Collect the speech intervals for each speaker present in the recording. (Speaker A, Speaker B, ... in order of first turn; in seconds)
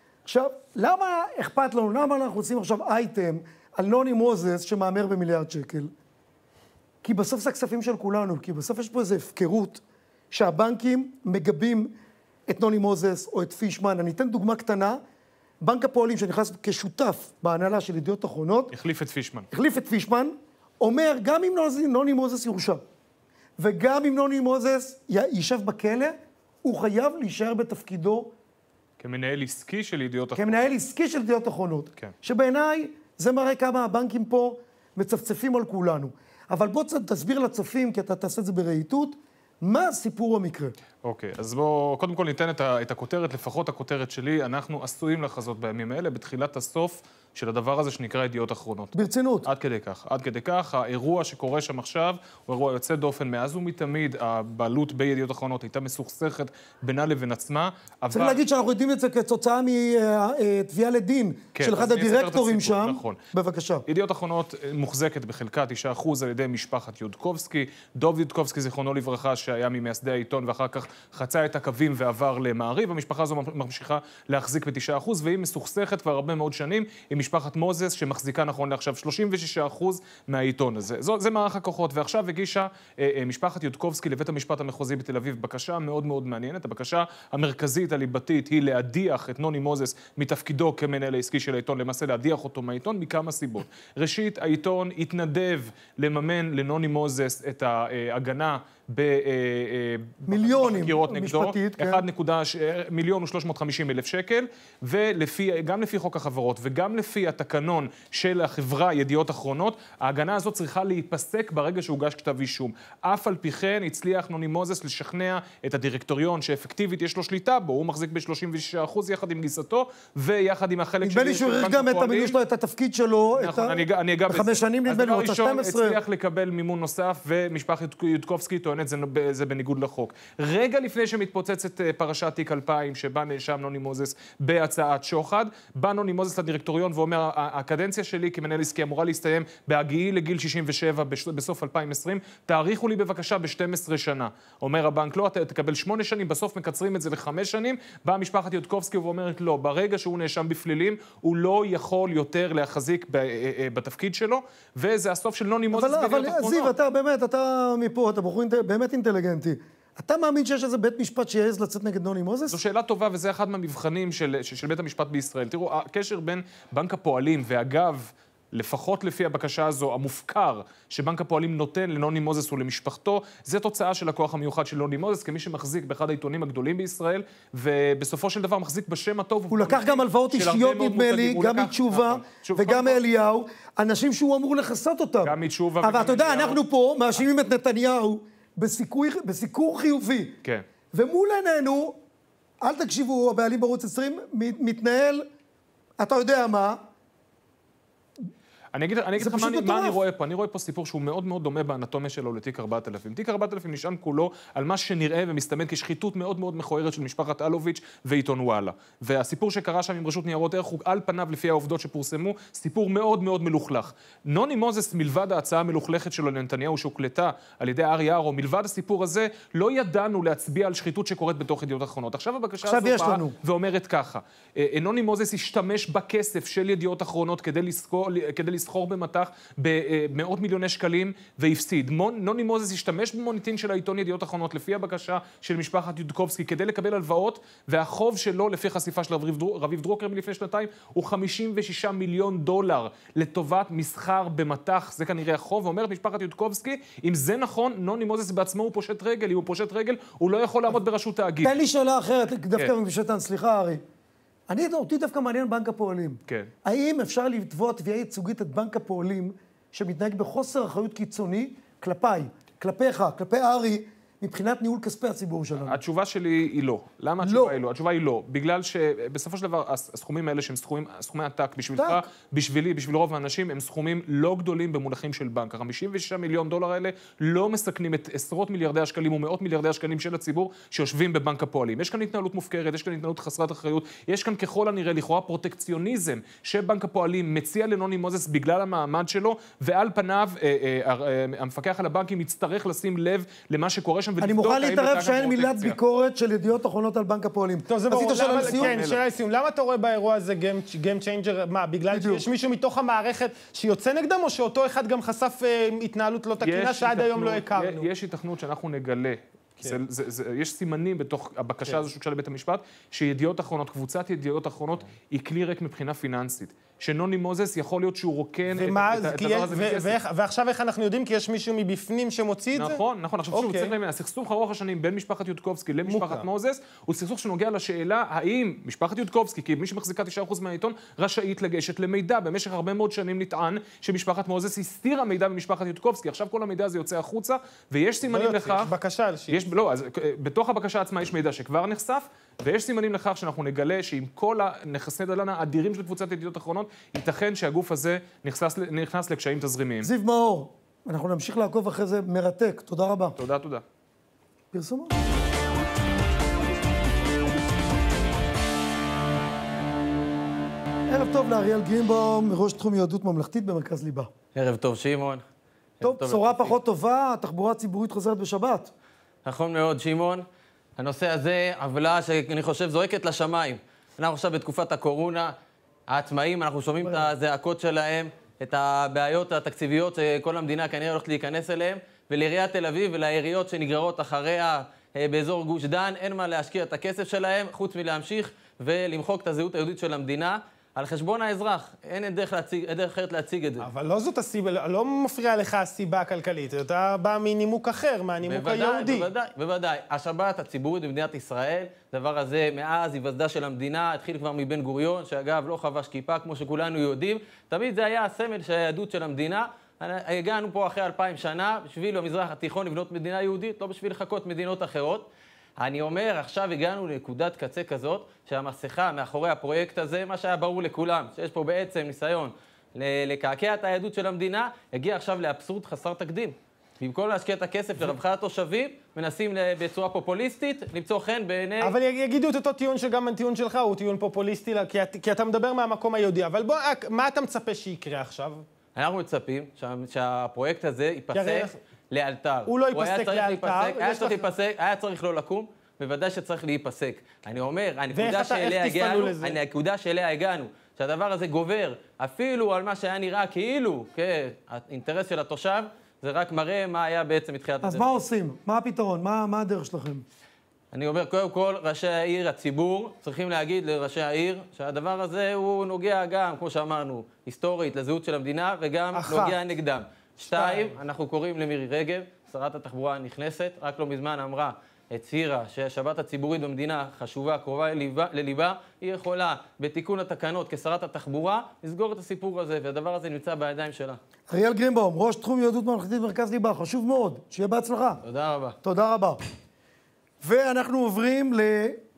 Speaker A: 0.3-5.9, 7.0-11.9, 12.5-15.0, 15.6-18.8, 19.5-22.8, 23.6-28.3, 30.4-40.8, 48.9-49.5, 58.1-63.9, 100.3-102.0, 121.0-126.0, 155.7-162.6, 179.5-190.4, 190.9-192.0, 192.6-195.3, 196.0-196.8, 199.2-200.0, 222.6-223.3, 251.4-253.8, 254.5-265.8, 267.2-267.6, 271.8-272.0, 294.2-298.9, 301.9-302.2, 349.8-353.2, 354.5-354.9, 360.9-364.1, 365.8-368.7, 457.6-460.1, 484.3-488.0, 488.6-489.2, 490.2-491.8
Speaker B: 18.7-19.5, 29.0-30.7, 41.0-48.9, 49.5-58.4, 61.5-63.2, 63.9-122.3, 123.4-156.7, 162.5-183.0, 185.2-186.6, 198.7-251.6, 265.6-295.8, 298.1-299.0, 306.4-320.0, 322.5-338.7, 339.3-349.9, 353.2-353.6
Speaker C: 297.7-307.9, 318.5-322.8, 323.3-323.7, 325.9-326.3, 338.1-339.5, 393.6-399.1, 431.6-438.4, 441.1-441.6, 442.5-444.3, 447.9-449.4, 468.9-469.4, 470.2-470.8
Speaker D: 364.4-365.2, 365.8-366.6, 369.2-370.2, 370.8-375.3, 375.9-393.7, 398.2-431.8, 438.8-457.9, 460.7-484.0, 488.0-488.6